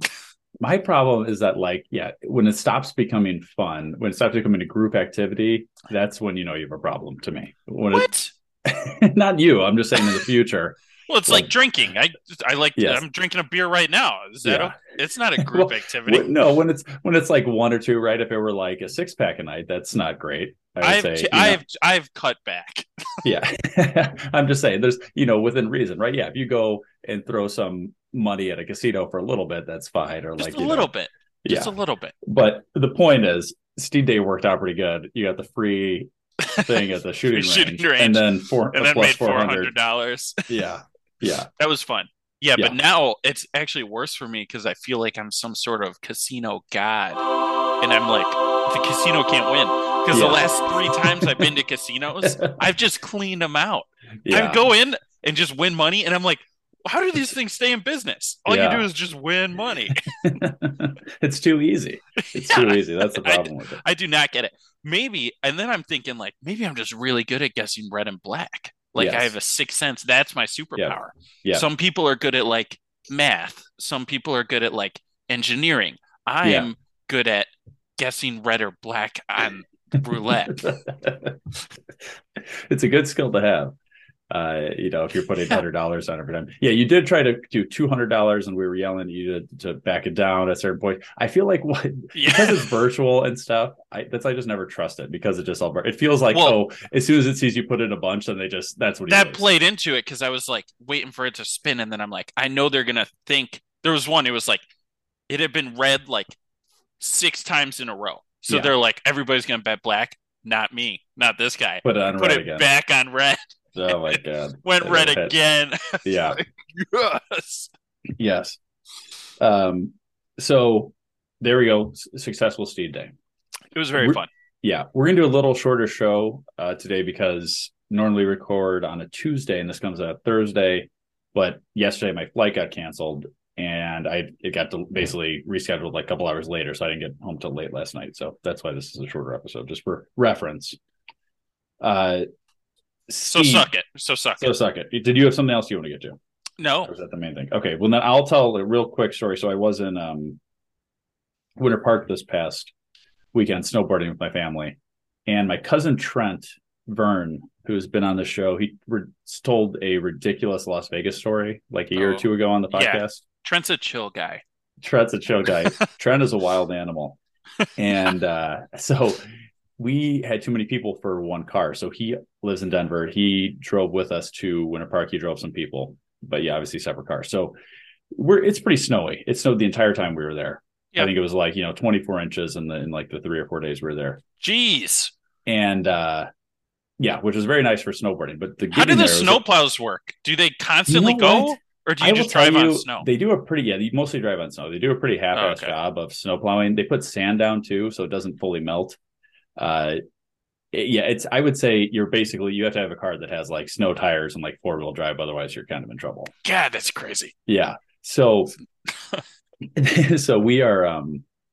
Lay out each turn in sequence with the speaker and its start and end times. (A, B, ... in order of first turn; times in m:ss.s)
0:00.6-0:11.5 A
0:07.9-0:08.3 B
0:11.1-0:16.3 B
0:12.8-0:13.0 A
0:14.4-0:14.8 A
0:15.4-0:21.6 A
0:20.8-0:22.9 B
0:23.2-0:30.9 A
0:30.4-0:32.1 B
0:31.4-0:31.7 A
0:32.2-0:39.7 A
0:36.4-0:40.6 B
0:40.5-0:41.5 A
0:41.6-0:47.2 B
0:47.8-1:00.1 B
0:50.1-0:51.5 A
0:52.2-0:52.6 A
0:54.2-0:54.7 A
0:58.4-0:58.9 A
0:59.9-1:03.8 A
1:02.2-1:20.7 B
1:08.9-1:09.3 A
1:10.8-1:11.6 A
1:16.4-1:16.7 A
1:20.1-1:21.4 A
1:22.4-1:23.7 A
1:24.3-1:39.5 A
1:32.1-1:32.7 B
1:36.3-1:36.6 B
1:39.1-1:44.6 B
1:45.3-1:46.4 B
1:47.0-1:57.7 B
1:48.5-1:48.8 A
1:51.8-1:52.7 A
1:53.7-1:55.4 A
1:56.0-1:56.4 A
1:58.2-1:58.6 A
1:59.4-2:03.1 A
2:03.7-2:04.3 B
2:04.0-2:20.8 A
2:21.8-2:22.2 A
2:23.1-2:23.7 A
2:23.3-2:24.5 B
2:24.4-2:26.2 A
2:26.6-2:26.9 B
2:26.8-2:30.4 A
2:31.6-2:32.7 A
2:33.3-2:43.2 A
2:41.9-2:44.4 B
2:44.8-2:47.2 A
2:47.8-2:49.2 A
2:49.8-2:57.5 A
2:58.1-3:04.2 A
3:04.4-3:05.1 B
3:05.4-3:06.3 A
3:07.0-3:09.4 A
3:08.7-3:13.1 B
3:10.9-3:19.0 A
3:15.3-3:15.7 B
3:19.6-3:20.0 A
3:20.7-3:26.3 A
3:26.4-3:27.3 B
3:27.5-3:28.5 A
3:29.8-3:31.2 A